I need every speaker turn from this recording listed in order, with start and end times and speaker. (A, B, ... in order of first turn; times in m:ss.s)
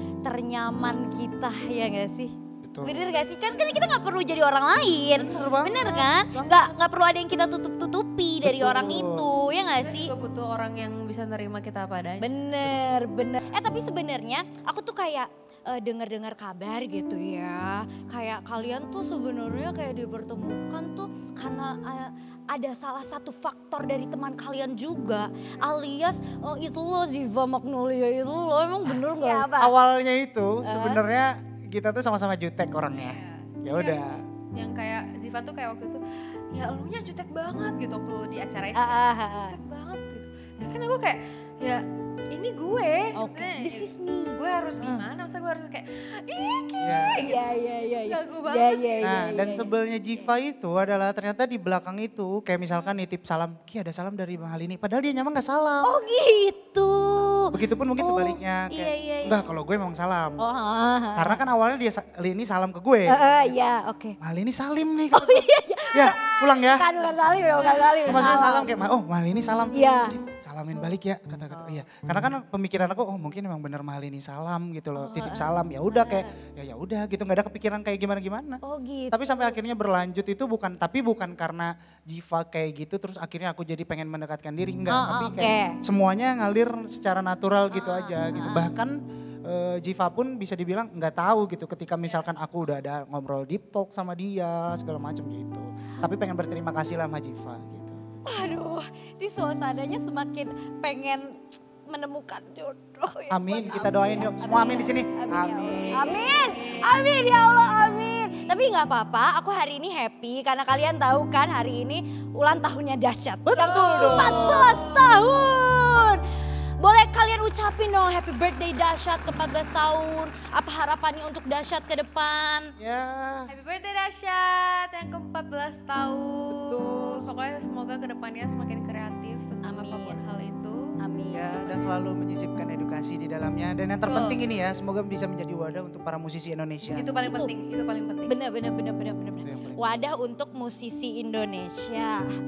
0:00.2-0:10.1 A
0:02.6-0:03.0 B
0:05.2-0:06.7 B
0:08.4-0:09.3 B
0:09.8-0:12.3 C
0:12.2-0:29.7 A
0:29.1-0:34.2 B
0:30.6-0:31.0 A
0:32.9-0:47.4 C
0:38.8-0:39.6 A
0:43.2-0:44.4 A
0:46.8-0:47.2 B
0:47.2-0:49.7 A
0:48.0-0:49.5 C
0:49.0-0:55.9 B
0:55.8-0:59.4 A
0:57.5-1:00.4 B
1:00.4-1:01.4 A
1:01.2-1:03.2 B
1:03.1-1:04.2 A
1:04.2-1:06.9 B
1:05.1-1:08.7 A
1:07.6-1:08.5 C
1:08.0-1:28.9 B
1:09.7-1:10.1 A
1:15.0-1:15.5 A
1:16.0-1:16.3 C
1:18.6-1:19.5 A
1:24.9-1:25.8 A
1:27.7-1:28.7 A
1:29.4-1:38.0 B
1:38.2-1:41.4 A
1:41.9-1:56.2 A
1:43.3-1:46.2 B
1:46.2-1:47.0 C
1:53.4-1:54.7 B
1:53.7-1:55.3 C
1:56.8-2:02.7 A
2:02.8-2:03.5 B
2:03.5-2:10.9 C
2:06.7-2:07.3 B
2:09.6-2:10.2 A
2:11.0-2:11.6 A
2:11.3-2:17.1 B
2:11.6-2:12.0 C
2:14.1-2:14.4 C
2:16.9-2:18.4 C
2:17.2-2:17.5 A
2:18.3-2:22.3 A
2:19.4-2:19.8 B